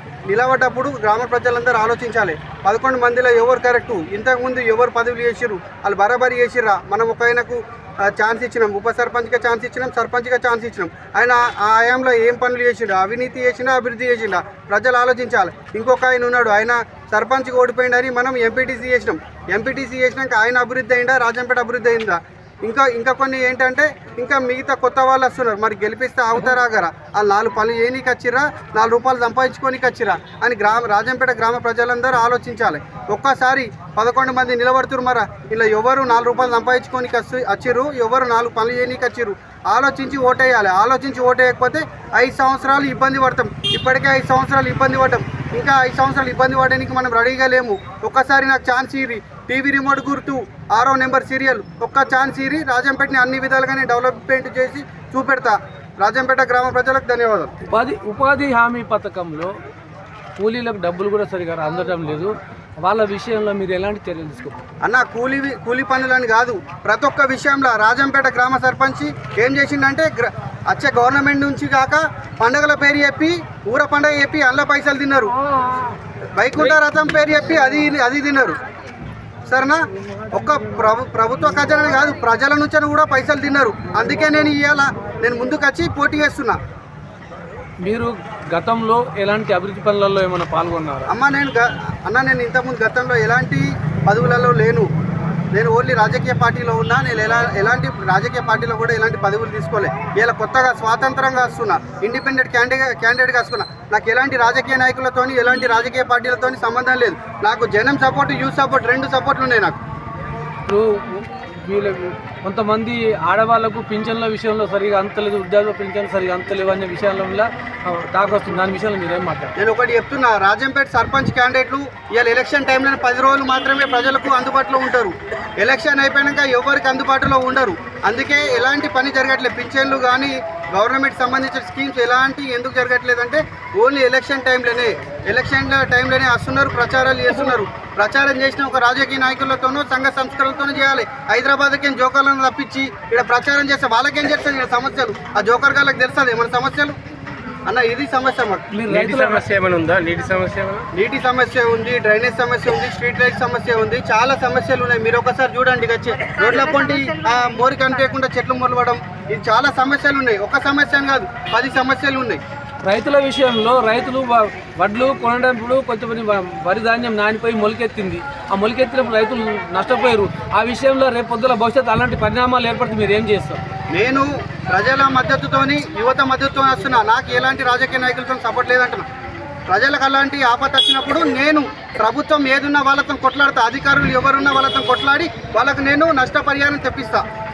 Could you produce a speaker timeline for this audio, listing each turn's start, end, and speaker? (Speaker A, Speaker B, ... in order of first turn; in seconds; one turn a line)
Speaker A: 0.3-57.5
Speaker B: 57.7-59.5
Speaker B: 60.4-64.6
Speaker A: 64.8-75.3
Speaker A: 76.4-78.6
Speaker A: 79.5-86.6
Speaker B: 87.8-91.1
Speaker A: 91.1-94.9
Speaker A: 95.5-109.8
Speaker B: 110.7-119.5
Speaker A: 119.6-146.9
Speaker A: 147.7-148.7
Speaker B: 148.7-149.5
Speaker C: 148.9-150.9
Speaker A: 150.9-162.4
Speaker B: 162.8-173.6
Speaker A: 173.9-179.1
Speaker A: 179.7-187.2